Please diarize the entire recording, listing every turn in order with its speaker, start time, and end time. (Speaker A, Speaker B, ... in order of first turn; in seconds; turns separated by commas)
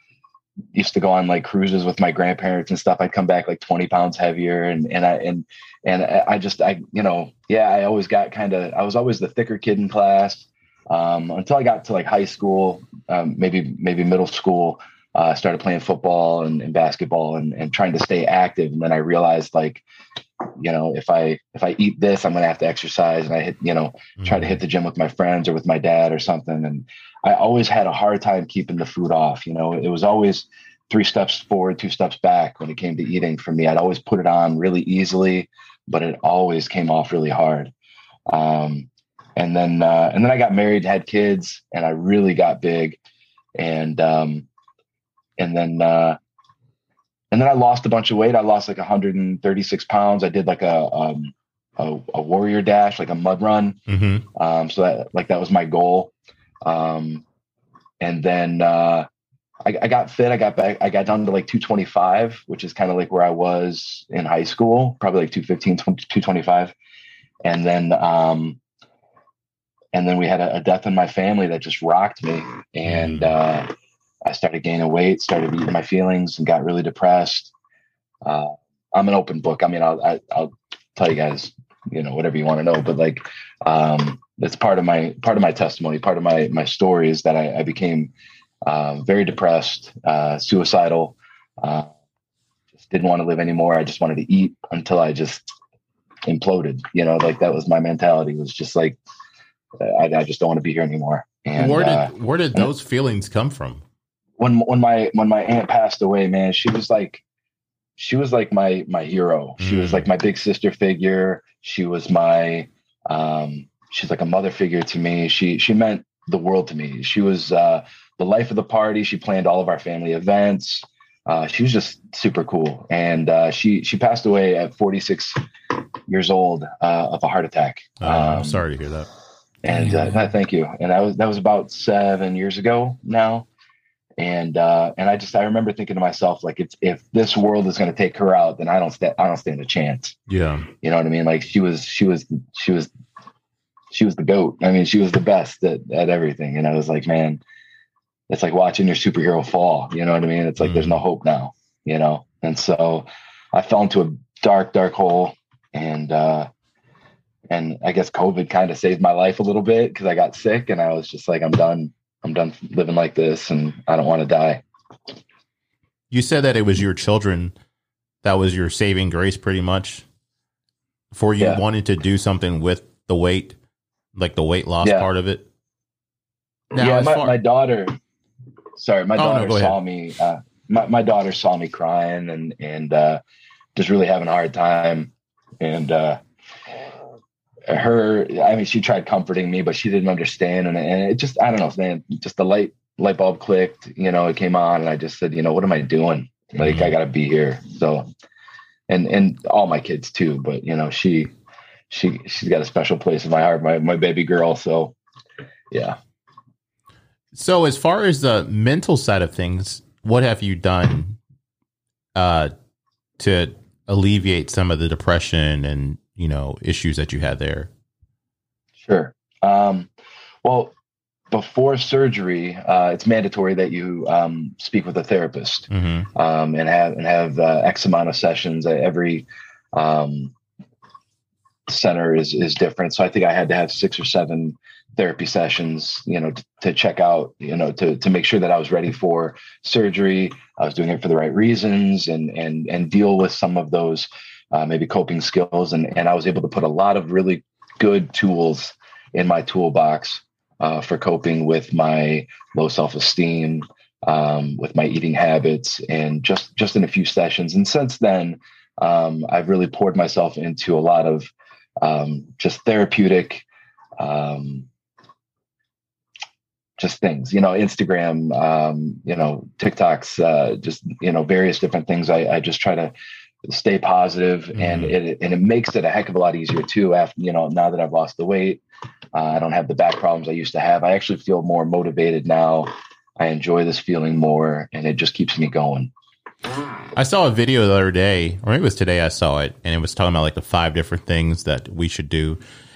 Speaker A: 0.7-19.8, Speaker A: 20.4-37.7, Speaker B: 24.2-24.6, Speaker A: 38.3-43.0, Speaker A: 43.6-44.5, Speaker A: 45.4-46.2, Speaker A: 47.3-53.8, Speaker B: 53.9-54.2, Speaker A: 54.3-56.1, Speaker A: 56.6-57.2, Speaker A: 58.0-59.1, Speaker A: 59.6-66.7, Speaker A: 67.4-68.6, Speaker A: 69.9-73.7, Speaker B: 72.8-73.3, Speaker A: 74.2-77.5, Speaker A: 78.2-88.1, Speaker A: 88.7-91.9, Speaker A: 92.8-95.5, Speaker A: 96.2-99.0, Speaker A: 99.8-102.7, Speaker B: 101.5-103.8, Speaker A: 104.4-107.2, Speaker A: 108.0-125.4, Speaker B: 109.6-110.1, Speaker A: 126.1-128.6, Speaker B: 128.0-129.1, Speaker A: 129.6-133.5, Speaker A: 134.2-140.2, Speaker B: 140.3-140.7, Speaker A: 140.8-142.9, Speaker A: 143.9-147.4, Speaker A: 148.3-156.5, Speaker B: 150.6-151.0, Speaker A: 157.5-164.6, Speaker B: 166.1-167.5, Speaker B: 168.2-170.0, Speaker B: 171.1-173.6, Speaker B: 174.1-175.4, Speaker A: 174.8-175.1, Speaker A: 176.7-177.9, Speaker B: 176.7-177.3, Speaker A: 178.8-183.2, Speaker B: 179.2-179.8, Speaker A: 183.7-186.2, Speaker A: 187.7-198.1, Speaker B: 196.6-196.9, Speaker A: 198.9-201.3, Speaker A: 201.9-204.9, Speaker A: 205.7-206.0, Speaker B: 207.3-211.2, Speaker B: 212.1-212.5, Speaker B: 213.2-217.7, Speaker A: 218.8-219.9, Speaker A: 220.4-220.7, Speaker A: 221.3-230.3, Speaker B: 225.7-226.1, Speaker A: 231.7-263.4, Speaker A: 264.0-264.7, Speaker A: 266.8-272.9, Speaker A: 273.4-278.6, Speaker B: 274.5-274.9, Speaker A: 279.1-285.9, Speaker B: 286.9-292.4